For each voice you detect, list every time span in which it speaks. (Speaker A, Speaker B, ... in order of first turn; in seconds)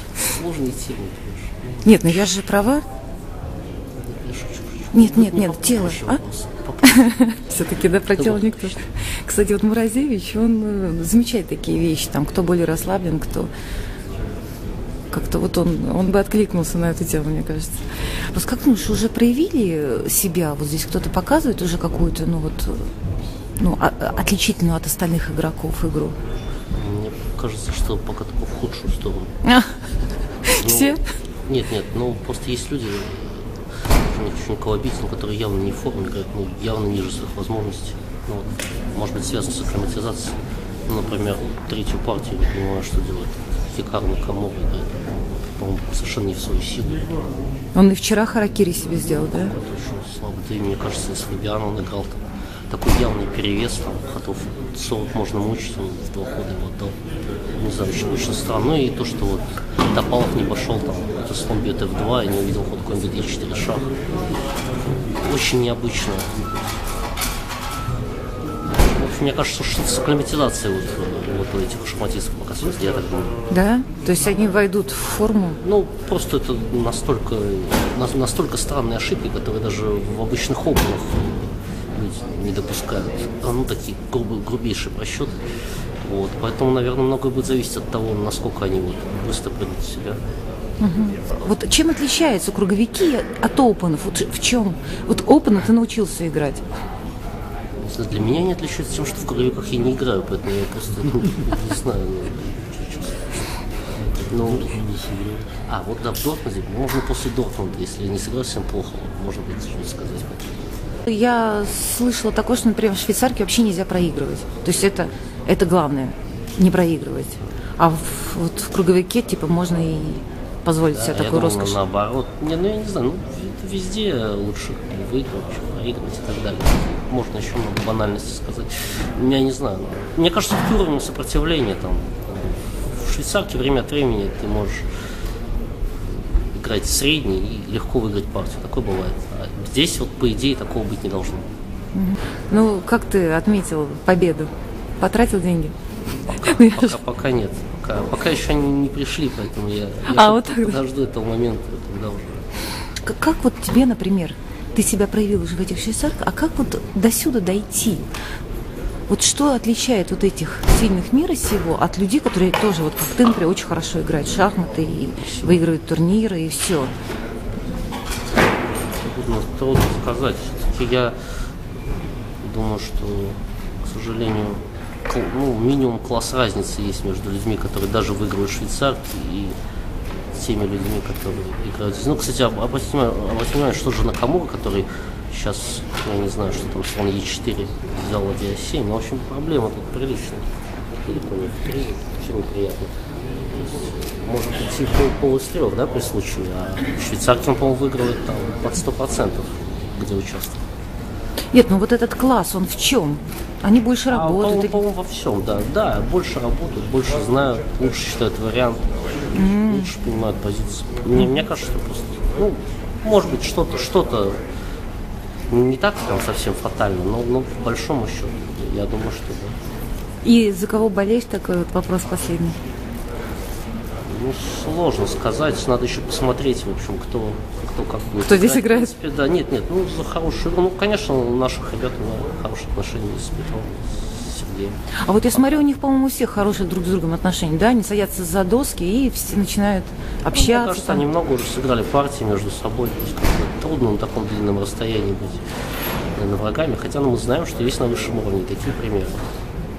Speaker A: 0.2-1.7, 4.0-7.3, 8.2-8.6, 26.7-29.4, 30.6-47.3, 49.2-57.0, 57.5-64.0, 64.9-66.6, 68.7-73.4, 75.6-85.5, 86.0-90.2, 97.8-103.4, 104.2-104.9, 105.6-110.7, 120.9-134.9, 136.0-141.5, 146.1-152.4, 168.7-171.2, 172.4-179.6, 180.3-190.5, 191.0-200.6, 204.1-214.4, 215.5-219.6, 224.0-234.8, 235.3-235.6, 240.3-245.5, 246.1-249.3
Speaker B: 1.8-2.8, 4.9-6.2, 6.8-13.5, 15.1-22.9, 23.6-26.2, 29.4-29.9, 30.4-31.1, 47.7-49.5, 73.5-75.6, 90.8-96.6, 111.1-121.8, 141.9-145.7, 146.3-147.0, 150.1-150.8, 153.0-158.1, 159.1-166.9, 201.5-204.8, 209.3-209.9, 211.1-211.4, 220.2-222.6, 228.2-228.9, 235.0-241.1